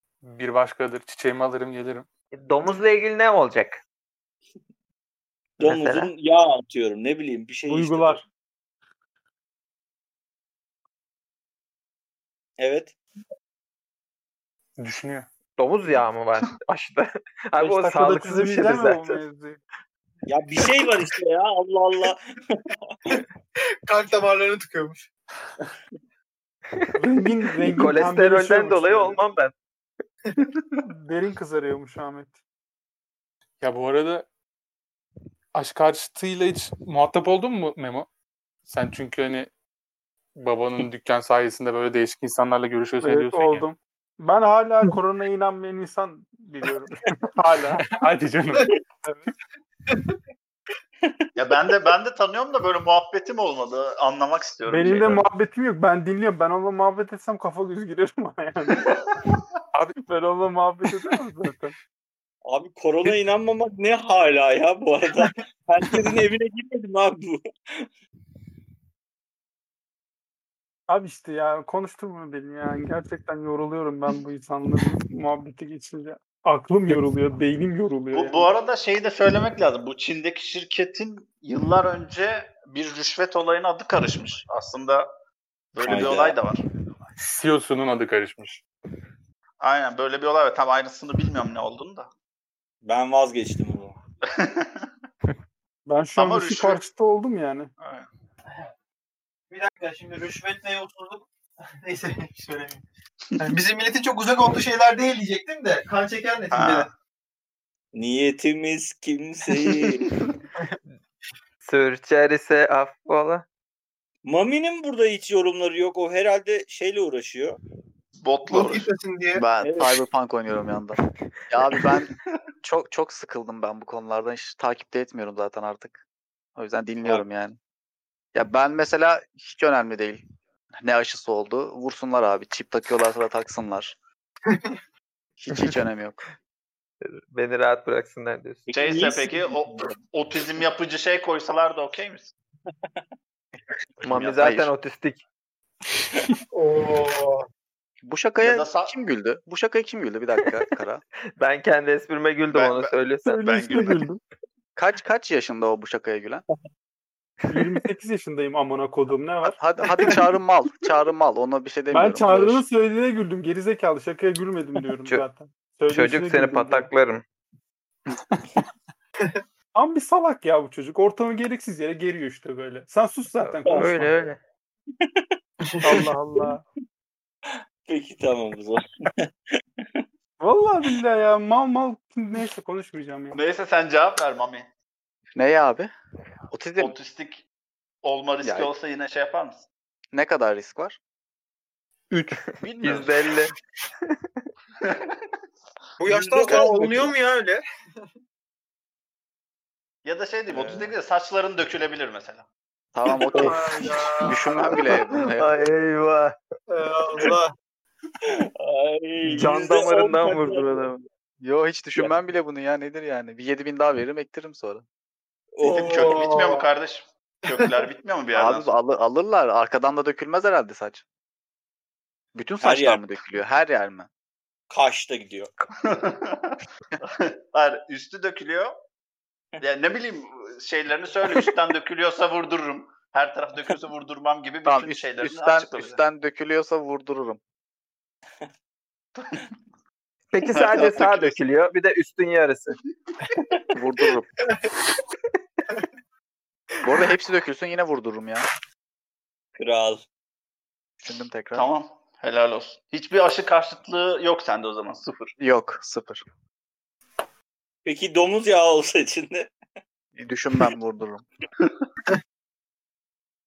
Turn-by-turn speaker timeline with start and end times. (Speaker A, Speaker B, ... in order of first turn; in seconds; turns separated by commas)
Speaker A: 0.2-2.0, Speaker B: 2.3-3.8, Speaker C: 5.6-8.2, Speaker B: 5.6-6.1, Speaker D: 7.7-8.2, Speaker C: 12.6-12.9, Speaker A: 14.8-15.3, Speaker B: 15.6-19.2, Speaker D: 17.6-19.6, Speaker C: 20.3-22.9, Speaker E: 23.9-25.1, Speaker D: 27.0-29.2, Speaker B: 27.6-29.5, Speaker F: 30.4-30.8, Speaker D: 30.9-32.4, Speaker A: 33.6-34.3, Speaker A: 35.5-38.1, Speaker A: 38.7-39.5, Speaker A: 40.4-43.6, Speaker D: 43.0-47.8, Speaker A: 47.8-48.7, Speaker D: 49.0-49.3, Speaker F: 51.4-55.2, Speaker D: 54.7-58.9, Speaker F: 58.8-59.4, Speaker D: 60.1-61.7, Speaker C: 62.5-67.8, Speaker D: 70.9-78.5, Speaker F: 78.1-85.1, Speaker F: 85.7-86.6, Speaker C: 85.8-86.4, Speaker A: 87.2-88.6, Speaker F: 89.6-92.1, Speaker C: 92.8-94.0, Speaker F: 94.2-94.9, Speaker D: 95.9-97.7, Speaker F: 96.2-96.8, Speaker F: 97.8-98.1, Speaker E: 99.5-101.2, Speaker E: 101.8-102.8, Speaker E: 103.4-106.9, Speaker F: 106.5-106.9, Speaker C: 107.9-110.0, Speaker B: 111.6-113.4, Speaker C: 114.2-117.6, Speaker F: 118.2-119.8, Speaker E: 118.5-119.4, Speaker C: 119.6-119.9, Speaker G: 119.8-121.0, Speaker G: 121.5-126.0, Speaker G: 126.6-127.6, Speaker G: 128.3-130.2, Speaker G: 130.8-133.9, Speaker G: 135.4-136.2, Speaker B: 137.0-138.7, Speaker C: 138.7-139.9, Speaker F: 138.7-142.3, Speaker F: 144.0-144.6, Speaker B: 144.0-145.2, Speaker G: 144.1-144.7, Speaker E: 146.5-147.4, Speaker G: 148.0-151.0, Speaker F: 148.4-148.9, Speaker B: 151.4-153.9, Speaker F: 152.5-154.0, Speaker D: 153.2-154.2, Speaker G: 154.8-156.4, Speaker D: 157.5-159.6, Speaker G: 159.4-162.6, Speaker D: 161.9-166.9, Speaker B: 165.9-167.2, Speaker D: 169.7-174.3, Speaker B: 173.4-174.4, Speaker C: 175.0-175.2, Speaker D: 175.8-176.6, Speaker C: 177.8-180.0, Speaker D: 180.4-183.4, Speaker F: 183.3-184.7, Speaker G: 185.3-185.9, Speaker G: 186.5-186.9, Speaker F: 186.8-187.4, Speaker F: 188.0-189.7, Speaker G: 188.4-188.7, Speaker G: 190.1-191.0, Speaker F: 192.6-193.3, Speaker B: 192.8-193.5, Speaker F: 194.8-195.2, Speaker E: 196.0-197.6, Speaker C: 196.1-197.1, Speaker F: 200.0-202.5, Speaker C: 200.5-200.8, Speaker G: 202.9-203.6, Speaker E: 203.3-204.7, Speaker G: 204.2-205.5, Speaker B: 205.4-206.3, Speaker E: 206.7-207.5, Speaker C: 208.2-210.9, Speaker B: 209.2-211.0, Speaker G: 211.4-214.8, Speaker C: 215.6-216.2, Speaker E: 215.7-216.7, Speaker F: 215.7-218.7, Speaker G: 218.3-221.0, Speaker G: 222.3-224.1, Speaker C: 222.6-223.0, Speaker C: 224.7-225.5, Speaker F: 225.8-228.7, Speaker F: 229.6-236.0, Speaker G: 234.6-237.4, Speaker F: 239.2-239.5, Speaker B: 240.3-242.8, Speaker F: 240.5-241.4, Speaker G: 243.7-244.3, Speaker G: 246.8-248.4, Speaker C: 249.6-250.0, Speaker G: 251.0-251.7, Speaker F: 251.5-255.3, Speaker G: 255.4-256.2, Speaker C: 257.8-259.5, Speaker G: 260.1-261.2